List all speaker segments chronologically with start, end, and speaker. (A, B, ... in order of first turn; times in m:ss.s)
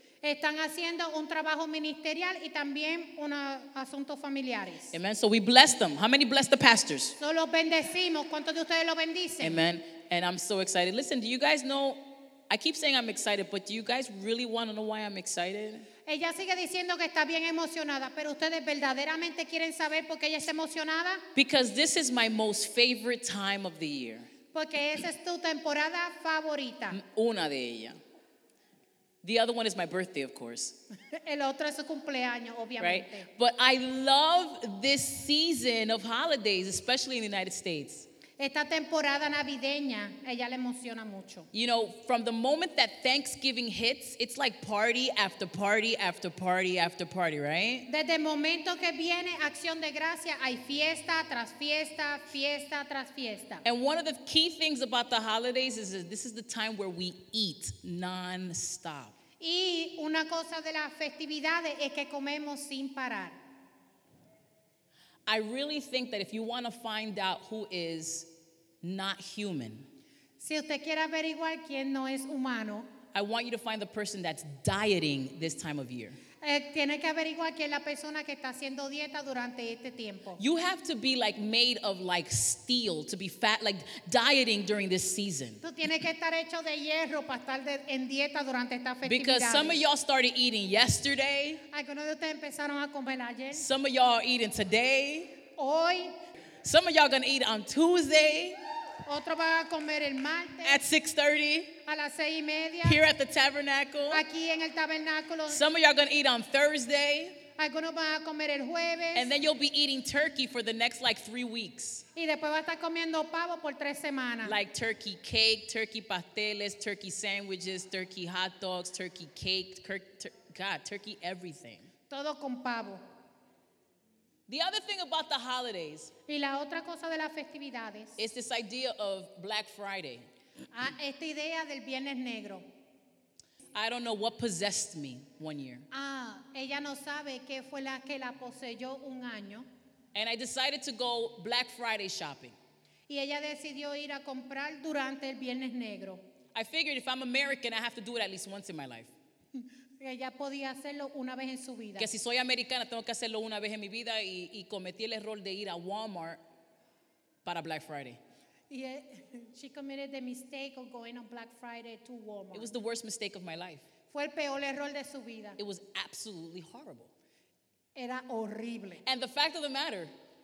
0:00.2-0:04.9 A
0:04.9-0:07.2 B
0:07.2-0:09.6 A
0:09.4-0:15.8 B
0:16.0-0:21.2 A
0:21.3-0:24.3 B
0:24.5-0:27.0 A
0:26.9-0:28.0 B
0:29.2-0:30.8 B
0:31.1-0:33.3 A
0:32.8-0:38.0 B
0:38.4-0:41.5 A
0:41.5-0:47.9 B
0:47.9-0:53.6 A
0:53.6-0:59.1 B
0:59.4-1:03.4 A
1:05.3-1:08.3 B
1:08.8-1:09.9 B
1:10.4-1:12.9 A
1:13.1-1:16.2 B
1:16.4-1:20.4 A
1:20.4-1:25.6 B
1:25.6-1:29.8 A
1:29.0-1:31.6 B
1:31.7-1:33.7 A
1:33.5-1:35.4 B
1:35.6-1:36.1 A
1:36.6-1:38.6 B
1:39.0-1:40.8 A
1:40.6-1:41.7 B
1:41.8-1:43.0 A
1:42.8-1:44.2 B
1:44.1-1:45.6 A
1:45.5-1:47.4 B
1:47.6-1:49.3 A
1:49.1-1:52.0 B
1:52.1-1:54.6 A
1:54.4-2:01.9 B
2:02.1-2:03.0 A
2:04.5-2:06.1 B
2:06.3-2:08.2 A
2:08.2-2:10.3 B
2:10.7-2:12.6 A
2:13.7-2:15.9 B
2:15.9-2:19.7 A
2:20.1-2:22.6 B
2:23.1-2:26.2 A
2:26.5-2:29.1 B
2:29.6-2:32.1 A
2:32.0-2:36.4 B
2:37.4-2:38.2 B
2:38.7-2:42.7 A
2:42.5-2:43.8 B
2:44.1-2:45.6 A
2:45.6-2:47.1 B
2:47.9-2:49.0 A
2:49.0-2:50.1 B